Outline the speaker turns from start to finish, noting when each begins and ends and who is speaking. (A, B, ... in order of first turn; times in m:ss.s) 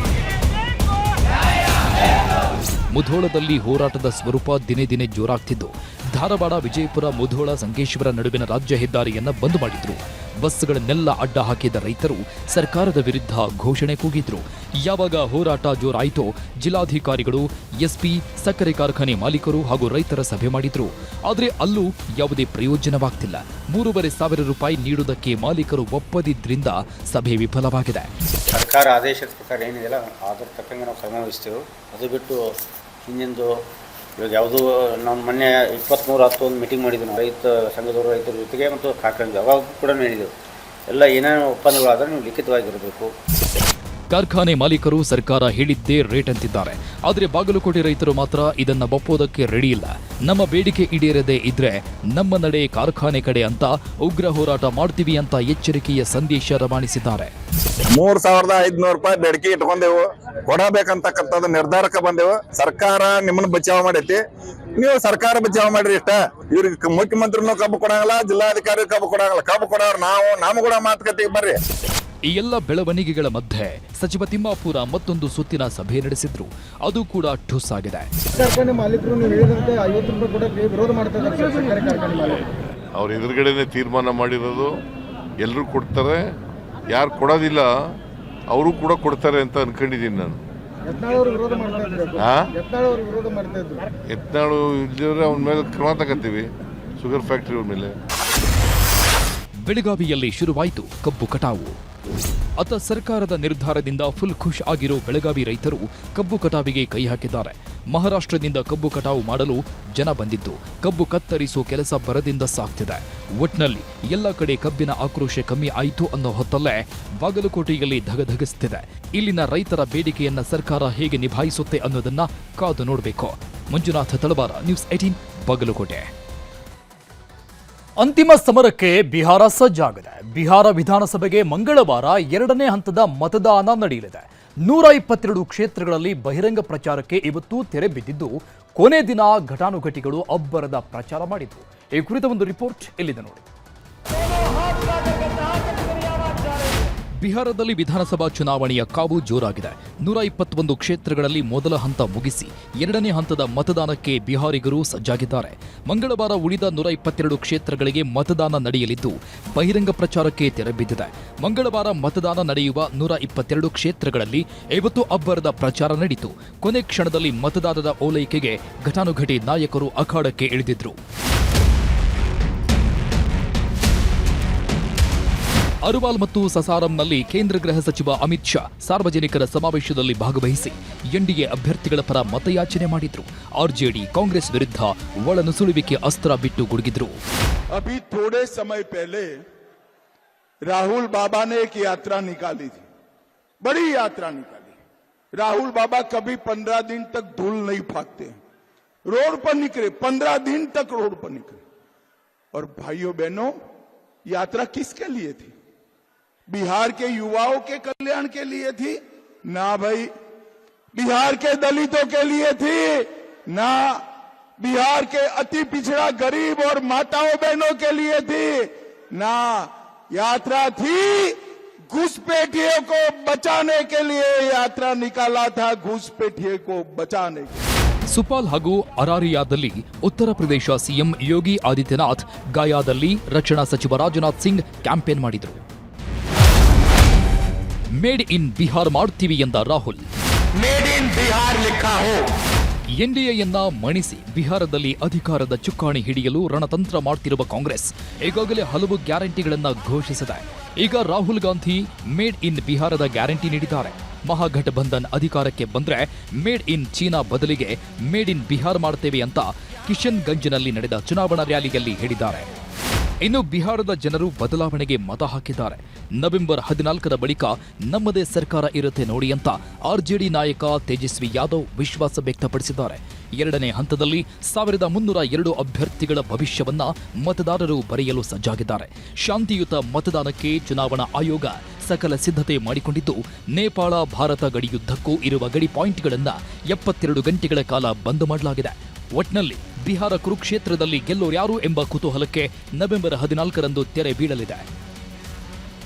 0:02.9-0:28.1 A
0:28.5-0:32.5 B
0:33.0-0:33.6 B
0:34.2-0:40.3 B
0:40.9-0:43.1 B
0:44.1-0:57.3 A
0:57.9-1:04.2 C
1:04.8-1:11.6 C
1:12.2-1:18.1 A
1:18.3-1:22.4 D
1:22.9-1:24.8 E
1:25.4-1:26.3 E
1:26.9-1:27.7 E
1:28.5-1:30.4 E
1:30.8-1:33.8 D
1:32.2-1:32.5 E
1:34.1-1:38.0 E
1:39.6-1:41.8 A
1:42.6-2:06.1 A
2:08.0-2:23.4 A
2:27.2-2:51.0 A
2:55.8-3:07.2 A
3:07.7-3:09.4 F
3:10.6-3:12.8 F
3:13.6-3:14.8 F
3:15.4-3:18.3 F
3:19.1-3:21.6 F
3:22.5-3:23.6 F
3:24.3-3:25.5 F
3:26.5-3:29.0 F
3:29.5-3:30.1 F
3:30.9-3:34.0 F
3:34.6-3:41.4 F
3:41.9-3:47.6 F
3:48.1-3:55.6 A
3:58.0-4:00.0 A
4:00.6-4:02.3 C
4:03.0-4:22.5 A
4:23.2-4:54.6 A